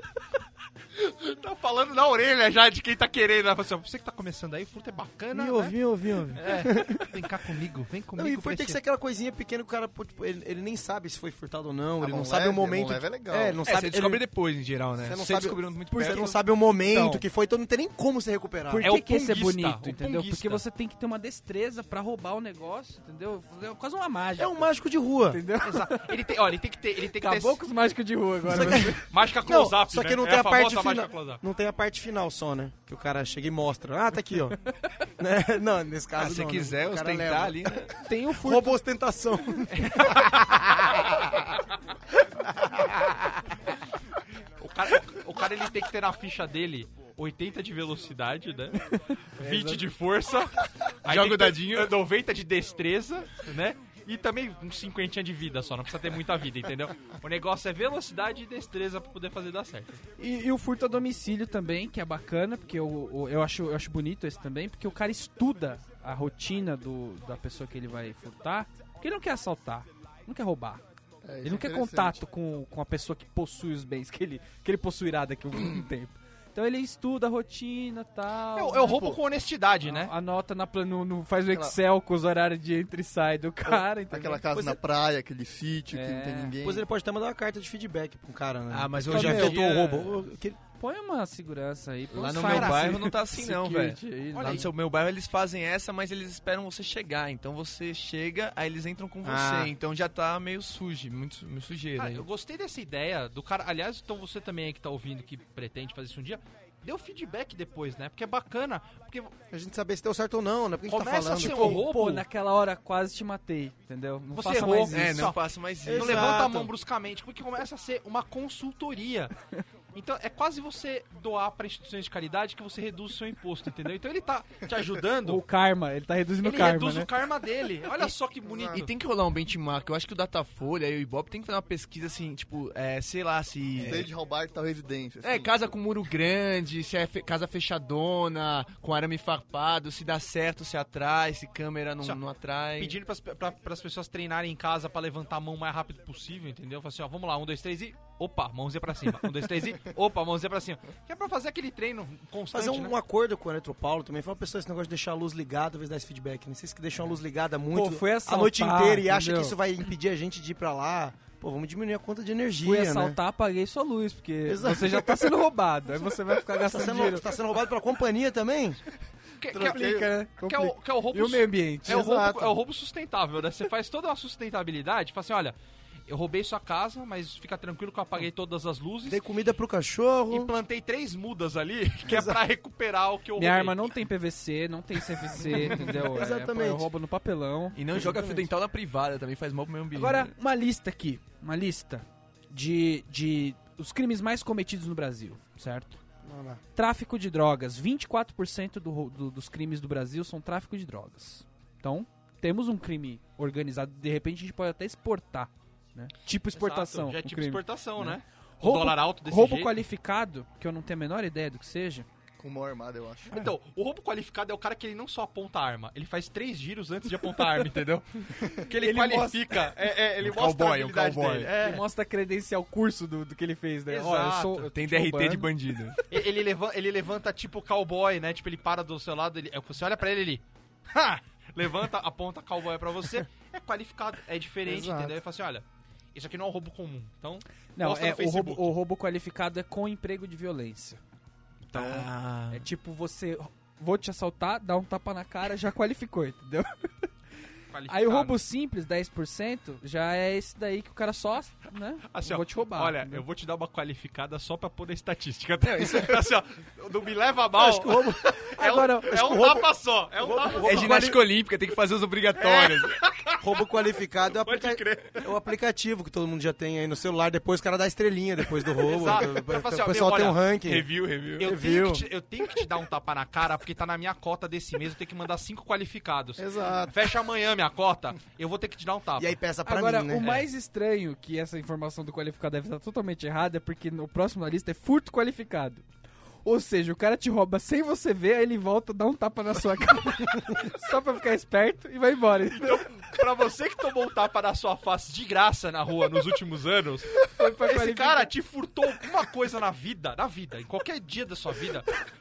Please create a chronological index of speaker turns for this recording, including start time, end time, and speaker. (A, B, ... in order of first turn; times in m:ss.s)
0:01.0-0:05.8 A
0:05.3-0:07.2 B
0:06.4-0:08.8 A
0:08.2-0:14.3 B
0:12.0-0:13.6 C
0:13.6-0:16.4 D
0:15.0-0:18.9 B
0:15.9-0:16.3 E
0:16.8-0:17.2 E
0:18.7-0:24.7 E
0:18.8-0:20.6 A
0:24.4-0:25.4 B
0:25.3-0:26.2 E
0:25.6-0:27.6 A
0:27.2-0:29.0 E
0:28.5-0:34.6 B
0:28.9-0:31.4 A
0:35.2-0:41.5 B
0:36.2-0:37.9 D
0:38.0-0:38.8 E
0:39.8-0:40.5 A
0:42.6-0:43.4 B
0:44.6-0:48.8 A
0:49.0-0:49.8 E
0:49.4-1:00.0 A
0:51.1-0:52.0 D
1:00.2-1:10.8 E
1:11.2-1:12.2 C
1:11.4-1:19.2 E
1:18.6-1:20.1 A
1:19.8-1:24.8 E
1:21.5-1:21.8 C
1:24.1-1:26.8 C
1:25.9-1:26.6 E
1:26.6-1:30.6 B
1:28.7-1:30.2 D
1:29.1-1:29.5 E
1:29.1-1:29.8 A
1:30.8-1:34.7 E
1:32.1-1:42.3 D
1:32.3-1:33.1 A
1:34.3-1:34.7 A
1:39.2-1:39.8 B
1:42.0-1:49.3 A
1:49.5-1:51.8 B
1:50.9-1:52.2 A
1:51.4-1:55.3 E
1:54.4-1:59.3 A
1:54.9-1:56.5 D
1:55.8-1:56.7 B
1:59.9-2:05.4 A
2:05.2-2:07.1 E
2:06.4-2:08.9 A
2:08.6-2:14.1 D
2:13.8-2:15.5 C
2:15.2-2:23.0 D
2:22.8-2:33.0 A
2:32.5-2:43.2 B
2:37.7-2:39.6 E
2:42.6-2:47.3 E
2:44.5-2:45.3 B
2:46.6-2:48.8 B
2:49.4-2:55.6 A
2:49.5-2:52.1 E
2:51.9-2:52.6 B
2:56.1-2:59.2 A
2:59.1-3:00.5 B
3:00.3-3:03.9 A
3:02.0-3:02.4 B
3:03.4-3:07.8 E
3:05.5-3:06.9 B
3:07.8-3:10.3 D
3:07.9-3:08.5 B
3:09.9-3:16.0 E
3:16.2-3:16.6 B
3:16.8-3:32.1 E
3:26.5-3:29.8 A
3:32.4-3:33.4 C
3:33.3-3:41.8 A
3:38.8-3:39.6 E
3:40.2-3:41.5 D
3:41.5-3:46.1 E
3:43.9-3:44.7 A
3:44.7-3:46.0 D
3:46.1-3:58.7 A
3:54.6-3:55.2 B
3:57.8-4:01.0 E
4:01.7-4:07.1 E
4:01.7-4:02.7 D
4:07.7-4:08.3 A
4:07.9-4:13.2 E
4:12.1-4:21.2 A
4:15.7-4:16.2 B
4:17.5-4:18.4 B
4:18.4-4:19.2 E
4:19.0-4:21.3 B
4:20.6-4:23.1 D
4:22.4-4:23.2 A
4:23.4-4:30.9 B
4:24.4-4:25.3 D
4:28.8-4:30.4 A
4:30.6-4:31.5 D
4:31.4-4:39.4 A
4:31.4-4:32.0 B
4:36.4-4:37.0 B
4:39.2-4:40.5 B
4:39.6-4:45.8 E
4:46.4-4:52.8 E
4:52.5-5:01.9 A
4:57.3-4:58.3 E